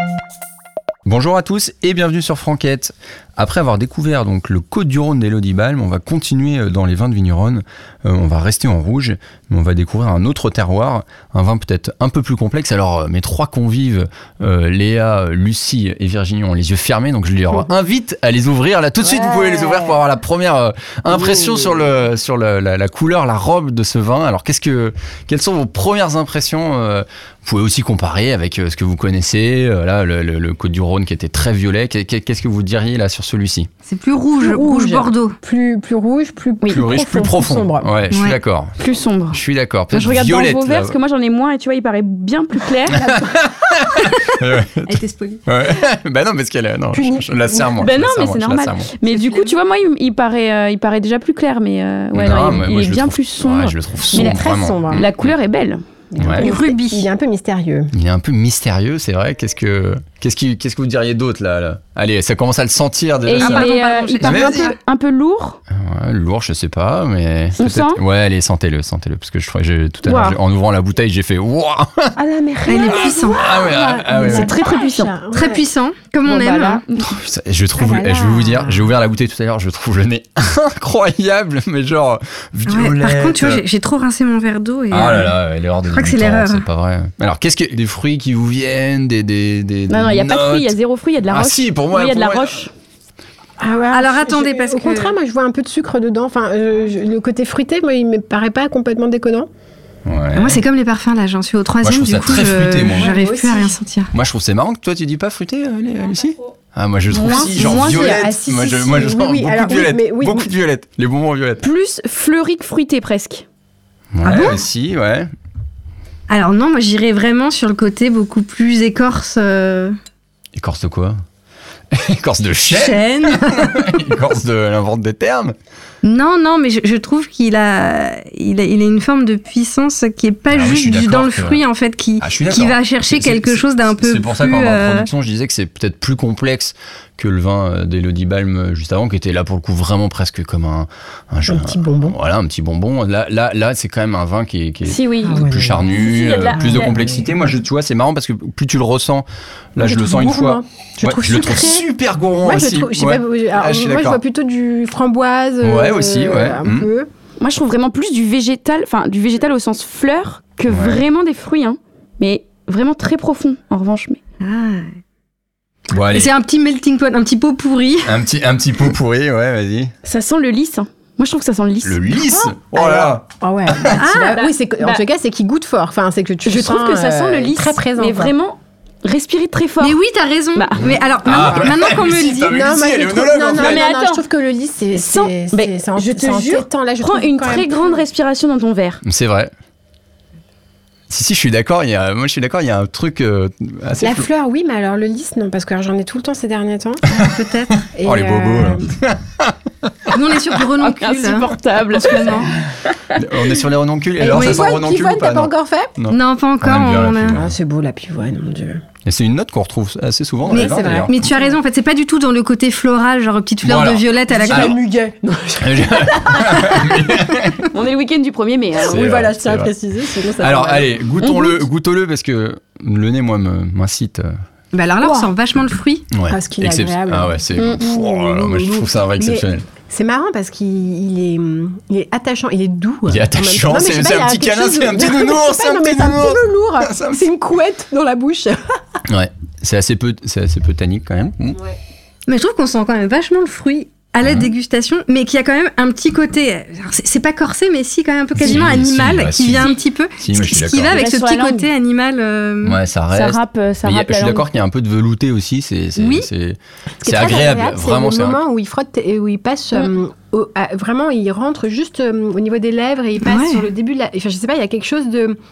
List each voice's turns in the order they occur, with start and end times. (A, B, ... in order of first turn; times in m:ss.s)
0:01.0-0:33.7 A
0:19.0-0:20.0 B
0:21.3-0:21.7 B
0:33.8-0:35.4 C
0:34.4-0:37.9 B
0:36.7-0:38.7 A
0:38.1-0:38.4 C
0:38.8-0:39.4 D
0:39.3-0:41.0 A
0:39.9-0:43.0 D
0:42.9-0:48.9 A
0:43.0-0:43.2 B
0:44.8-0:45.4 C
0:46.9-0:47.8 B
0:47.8-0:55.8 D
0:49.1-0:49.5 C
0:52.1-0:55.3 A
0:54.1-0:55.0 B
0:56.1-0:57.9 B
0:56.2-0:56.5 A
0:56.4-0:57.0 C
0:57.9-1:03.7 A
1:03.3-1:05.6 D
1:03.4-1:04.7 C
1:04.2-1:04.7 A
1:05.7-1:12.1 A
1:07.6-1:08.0 D
1:10.0-1:10.4 D
1:12.2-1:15.6 B
1:12.7-1:13.6 C
1:12.8-1:14.6 A
1:14.1-1:15.1 D
1:15.1-1:16.8 C
1:16.2-1:16.8 B
1:17.0-1:23.6 A
1:17.8-1:18.9 B
1:22.7-1:25.4 C
1:24.9-1:30.7 A
1:25.9-1:26.6 C
1:29.9-1:32.7 D
1:31.3-1:32.6 A
1:33.6-1:39.5 B
1:33.9-1:35.1 C
1:40.0-1:40.6 A
1:40.3-1:44.1 C
1:41.8-1:43.1 A
1:43.0-1:43.8 B
1:44.1-1:51.6 A
1:47.1-1:48.2 D
1:47.2-1:50.5 B
1:47.6-1:47.9 C
1:51.6-1:53.4 D
1:54.1-1:55.3 A
1:54.2-1:54.6 C
1:56.3-1:59.9 C
2:00.6-2:01.2 A
2:01.9-2:05.5 A
2:02.7-2:04.1 C
2:06.0-2:15.1 C
2:10.5-2:11.6 A
2:12.2-2:34.2 A
2:21.5-2:22.2 B
2:24.8-2:26.9 D
2:25.2-2:25.9 B
2:26.5-2:27.2 B
2:29.8-2:31.8 B
2:32.4-2:37.1 B
2:35.6-2:36.9 A
2:37.4-2:44.2 D
2:40.7-2:41.0 A
2:44.4-2:44.9 C
2:45.9-2:46.3 A
2:46.1-2:48.2 C
2:48.0-2:49.9 A
2:50.0-2:52.5 D
2:51.8-2:54.0 A
2:52.7-2:58.3 B
2:54.0-2:54.3 C
2:54.1-2:55.0 D
2:56.4-3:00.0 D
2:59.8-3:02.5 C
3:00.6-3:00.9 D
3:00.8-3:03.8 A
3:01.3-3:08.0 B
3:03.6-3:04.2 D
3:04.9-3:09.0 D
3:09.0-3:09.5 A
3:11.1-3:14.3 A
3:14.0-3:17.0 B
3:17.1-3:17.8 C
3:17.8-3:20.6 A
3:17.9-3:18.9 B
3:20.1-3:22.5 C
3:20.8-3:23.2 D
3:23.2-3:27.5 A
3:24.2-3:25.9 B
3:24.3-3:24.7 C
3:26.1-3:27.4 C
3:27.3-3:28.8 B
3:29.0-3:31.2 A
3:30.5-3:31.6 B
3:30.5-3:34.7 C
3:33.6-3:34.7 A
3:34.3-3:37.3 B
3:35.6-3:37.7 A
3:37.7-3:39.0 D
3:38.8-3:41.1 B
3:38.8-3:39.7 A
3:40.4-3:44.3 A
3:41.2-3:41.6 D
3:44.7-3:46.1 C
3:45.0-3:45.3 B
3:46.1-3:49.7 A
3:46.3-3:58.6 B
3:47.6-3:47.8 D
3:53.1-3:57.2 A
3:59.1-4:01.6 A
4:02.3-4:12.8 C
4:04.2-4:04.5 A
4:08.4-4:11.0 A
4:10.8-4:11.7 D
4:12.6-4:18.4 A
4:13.1-4:14.4 D
4:16.0-4:16.3 C
4:17.0-4:25.4 B
4:23.2-4:23.6 C